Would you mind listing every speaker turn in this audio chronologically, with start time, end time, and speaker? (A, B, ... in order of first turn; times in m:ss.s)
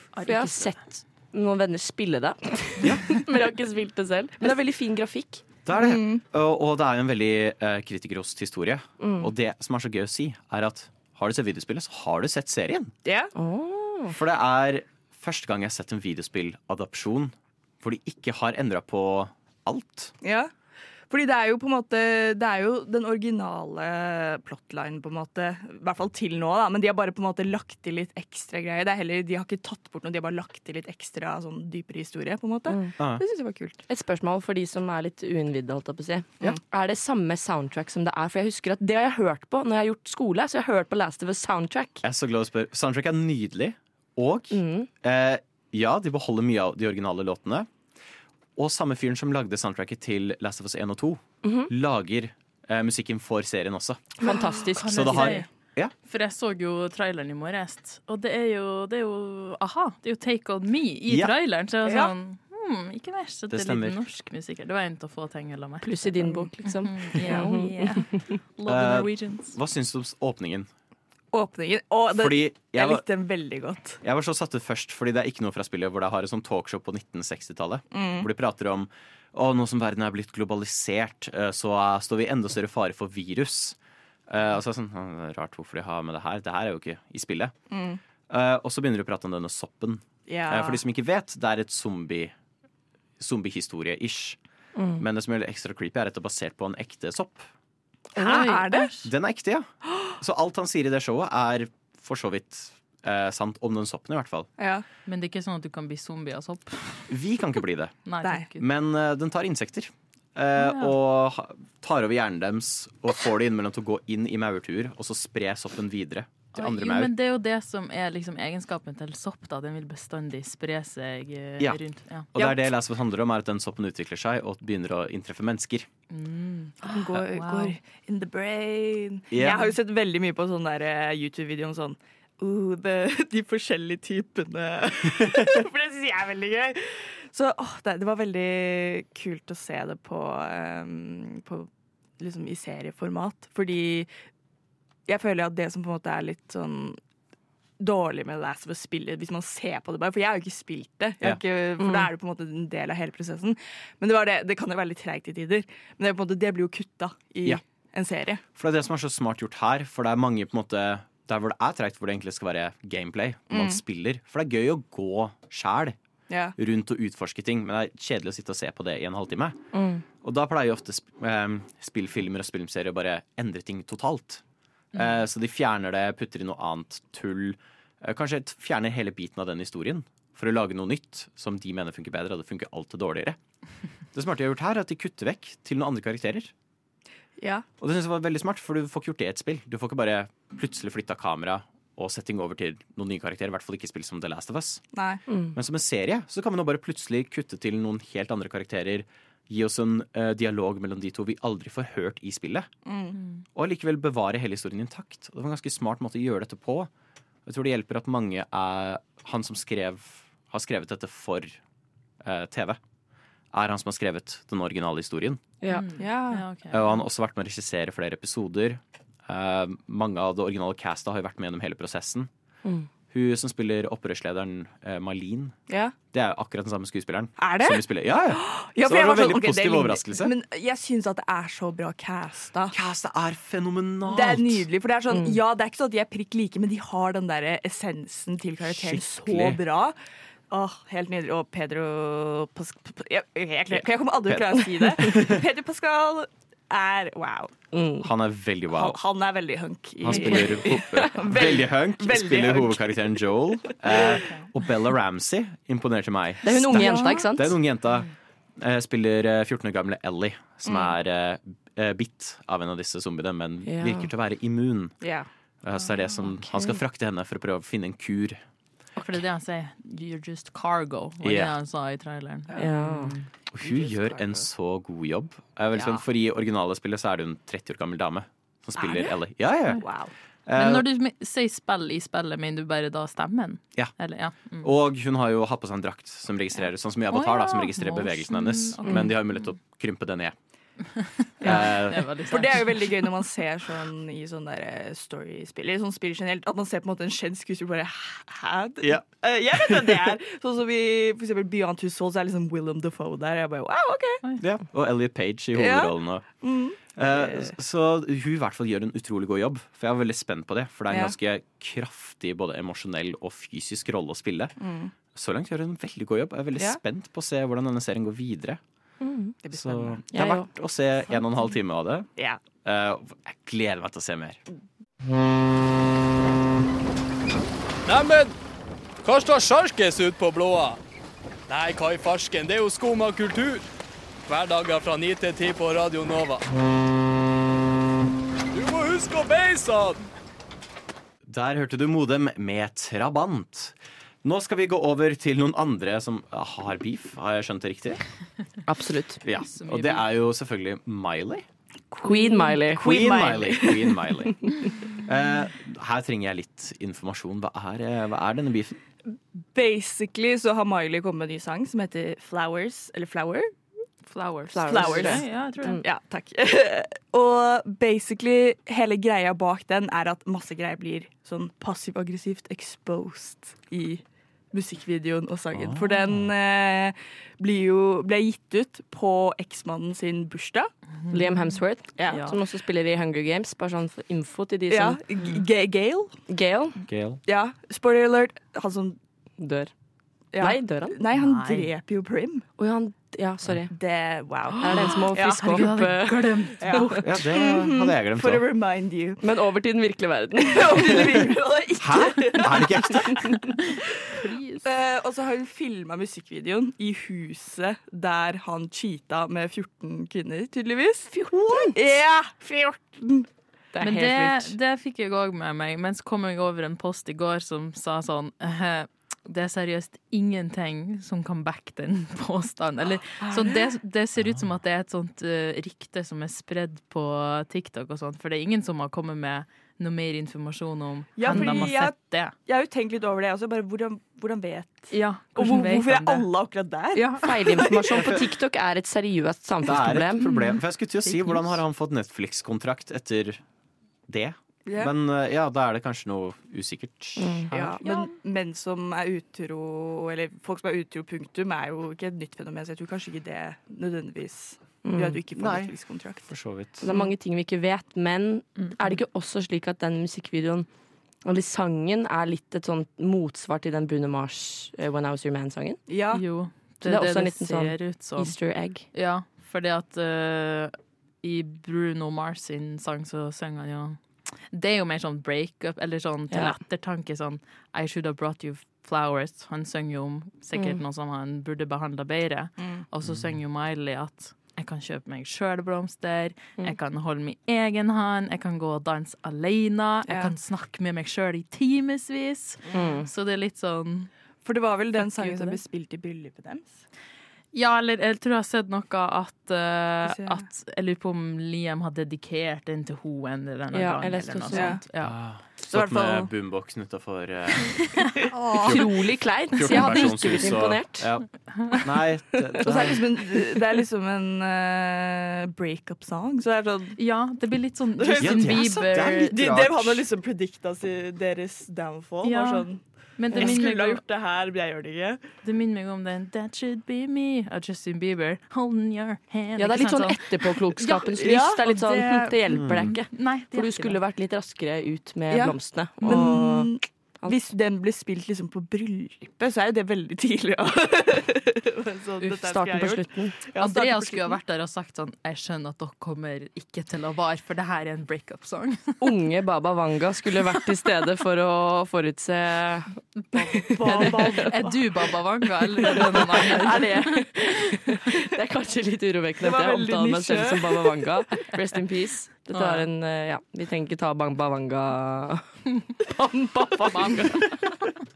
0:00.1-0:00.8 A
0:00.2-0:05.4 B
0:02.8-0:03.1 C
0:05.6-0:12.9 C
0:05.7-0:06.2 D
0:09.0-0:09.3 B
0:13.0-0:13.3 D
0:13.3-0:14.2 B
0:14.1-0:20.1 C
0:20.2-0:20.5 D
0:21.1-0:33.8 D
0:33.9-0:42.0 B
0:42.0-0:47.7 C
0:44.5-0:44.9 B
0:48.6-0:54.1 C
0:51.4-0:51.7 B
0:54.2-0:55.4 B
0:54.6-0:55.4 A
0:54.9-0:55.9 C
0:56.0-1:09.6 A
1:01.8-1:02.1 D
1:03.5-1:04.0 C
1:05.8-1:08.3 B
1:07.2-1:07.5 D
1:08.6-1:10.7 C
1:11.3-1:14.0 D
1:12.1-1:13.0 C
1:14.0-1:23.8 C
1:17.9-1:18.3 D
1:24.3-1:27.5 C
1:27.7-1:28.0 D
1:28.3-1:32.3 C
1:30.3-1:30.8 D
1:33.2-1:34.4 C
1:34.8-1:35.0 B
1:35.0-1:37.5 C
1:38.1-1:38.9 D
1:38.2-1:39.0 A
1:39.0-1:44.5 C
1:44.6-1:44.8 D
1:45.0-1:47.1 A
1:47.1-1:48.0 C
1:48.0-1:48.6 A
1:48.6-1:57.1 C
1:50.6-1:51.0 A
1:56.6-2:02.3 A
2:02.3-2:05.9 C
2:02.4-2:02.7 D
2:06.1-2:07.8 A
2:06.8-2:21.7 D
2:09.3-2:09.7 C
2:22.2-2:24.1 D
2:25.1-2:27.0 D
2:27.8-2:38.4 D
2:31.8-2:32.1 B
2:38.6-2:46.0 C
2:43.5-2:43.8 D
2:46.3-2:46.5 D
2:46.6-2:49.6 C
2:49.7-2:50.0 B
2:50.2-2:54.4 C
2:54.9-2:55.2 A
2:54.9-3:03.4 C
3:04.1-3:06.5 C
3:07.4-3:07.6 D
3:07.8-3:14.8 C
3:14.9-3:15.2 D
3:15.5-3:22.7 C
3:22.8-3:23.2 D
3:23.5-3:26.9 C
3:27.4-3:31.6 C
3:32.2-3:32.8 C
3:33.5-3:35.4 C
3:35.6-3:36.0 B
3:35.7-3:37.0 A
3:36.0-3:36.4 D
3:36.7-3:42.3 C
3:43.1-3:45.6 C
3:46.1-3:50.3 C
3:47.4-3:52.8 D
3:52.7-3:54.6 C
3:54.0-4:00.0 D
3:55.1-3:55.4 B
3:58.6-3:59.6 C
4:00.5-4:07.5 D
4:03.7-4:05.4 C
4:07.7-4:08.1 B
4:08.0-4:09.0 C
4:08.7-4:13.2 D
4:10.0-4:25.0 C
4:13.9-4:14.2 D
4:16.4-4:17.6 B
4:20.6-4:20.9 D
4:23.6-4:24.1 B
4:25.0-4:25.3 D
4:25.6-4:28.4 C
4:25.8-4:26.3 A
4:29.0-4:33.2 A
4:31.2-4:31.5 C
4:32.5-4:32.8 D
4:32.5-4:33.2 B
4:33.5-4:39.8 C
4:33.6-4:34.5 D
4:35.7-4:36.0 A
4:38.8-4:39.1 D
4:39.7-4:40.1 D
4:40.5-4:40.8 C
4:40.5-4:44.7 A
4:44.6-4:50.3 C
4:47.1-4:49.5 A
4:51.0-4:52.8 A
4:51.4-5:04.2 D
4:51.4-4:52.0 C
4:58.8-5:00.2 C
5:04.4-5:06.3 C
5:05.6-5:07.5 D
5:07.0-5:14.6 C
5:14.6-5:14.9 D
5:15.1-5:18.6 C
5:19.0-5:19.4 B
5:19.4-5:20.0 D
5:19.5-5:22.1 C
5:20.1-5:20.4 B
5:22.6-5:24.4 C
5:27.8-5:28.3 E
5:29.0-5:30.8 E
5:31.5-5:33.6 E
5:34.3-5:36.4 E
5:38.5-5:40.0 E
5:41.2-5:48.0 C
5:48.7-5:49.2 B
5:49.2-5:51.4 C
5:49.3-5:50.0 A
5:52.0-5:54.1 D
5:52.0-5:53.0 B
5:52.7-5:58.8 C
5:59.1-6:03.5 D
6:04.0-6:05.8 A
6:04.5-6:05.8 B
6:04.6-6:20.7 D
6:21.1-6:25.0 B
6:22.0-6:22.3 D
6:22.0-6:22.4 A
6:24.7-6:26.2 D
6:26.3-6:26.8 B
6:26.9-6:27.2 C
6:27.2-6:29.0 D
6:29.4-6:29.7 B
6:30.3-6:32.5 D
6:30.4-6:31.0 B
6:31.1-6:31.7 A
6:32.6-6:33.7 B
6:33.7-6:35.7 D
6:34.6-6:36.9 B
6:34.7-6:37.1 A
6:36.6-6:39.2 D
6:37.0-6:38.4 C
6:39.2-6:41.0 B
6:40.4-6:43.5 D
6:41.8-6:43.3 C
6:44.1-6:44.7 A
6:44.6-6:53.3 D
6:51.1-6:52.0 B
6:53.7-6:54.5 B
6:53.8-7:12.3 A
7:03.2-7:03.7 D
7:11.2-7:18.1 D
7:11.2-7:11.7 B
7:14.9-7:16.3 A
7:16.9-7:17.4 A
7:17.2-7:20.5 B
7:17.9-7:18.2 C
7:19.6-7:23.4 C
7:21.1-7:21.4 B
7:24.1-7:27.8 C
7:24.7-7:24.9 D
7:27.2-7:27.8 B
7:27.5-7:36.3 D
7:34.8-7:35.2 B
7:35.4-7:36.8 C
7:36.8-7:40.7 B
7:41.2-7:45.8 B
7:45.9-7:46.2 D
7:46.1-7:48.3 A
7:46.8-7:48.9 B
7:48.9-8:14.1 A
7:56.3-7:56.6 B
8:02.6-8:02.8 D
8:03.0-8:03.3 C
8:10.1-8:10.3 D
8:12.6-8:13.0 D
8:12.7-8:13.1 B
8:14.4-8:16.8 D
8:15.0-8:15.6 A
8:17.5-8:25.2 A
8:20.0-8:20.4 D
8:23.7-8:24.8 B
8:24.5-8:24.8 D
8:25.0-8:27.9 C
8:25.6-8:26.3 D
8:28.2-8:28.7 A
8:28.5-8:31.1 B
8:28.6-8:28.9 C
8:29.5-8:33.0 C
8:29.7-8:29.9 A
8:32.6-8:37.0 D
8:37.0-8:39.2 A
8:38.0-8:45.2 D
8:38.2-8:40.0 C
8:42.2-8:44.0 A
8:45.4-8:50.6 A
8:49.6-8:56.7 B
8:50.8-8:51.6 D
8:51.6-8:54.0 A
8:52.6-8:52.9 C
8:55.3-9:04.4 D
8:56.0-8:56.4 A
9:02.3-9:03.4 B
9:03.6-9:08.9 A
9:09.0-9:14.4 B
9:13.2-9:17.2 A
9:13.6-9:14.8 D
9:15.8-9:27.8 B
9:19.4-9:20.9 D
9:22.5-9:22.9 A
9:26.9-9:27.2 A